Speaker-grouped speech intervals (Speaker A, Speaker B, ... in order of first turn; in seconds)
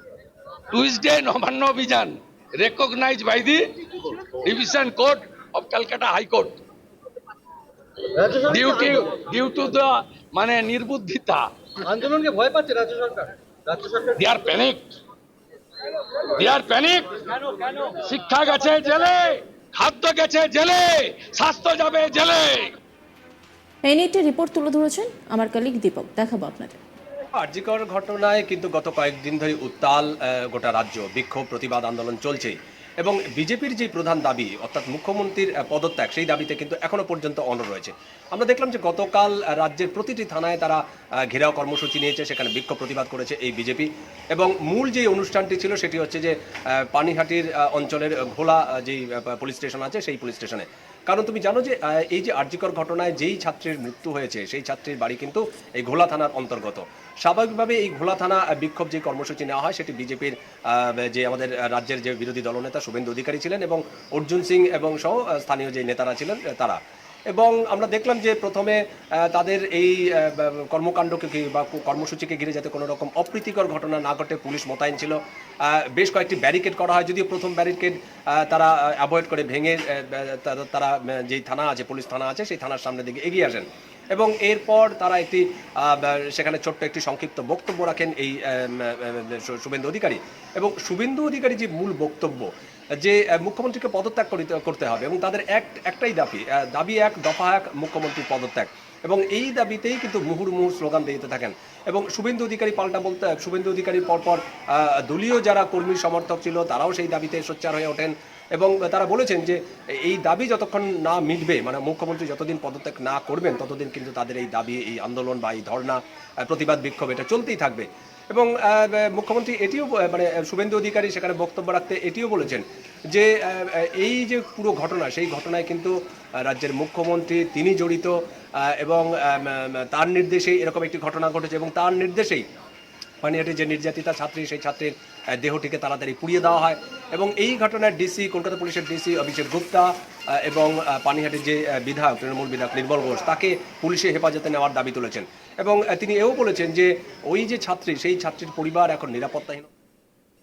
Speaker A: 0.7-6.6, 8.4-11.5, 14.2-14.9, 16.3-22.8
Speaker B: 8.2-9.0, 11.8-14.1
Speaker C: 23.9-26.8
Speaker D: 27.4-46.3, 46.9-66.8, 67.3-92.5, 93.0-125.9, 126.5-128.1, 128.7-132.4, 133.2-139.9, 140.4-149.7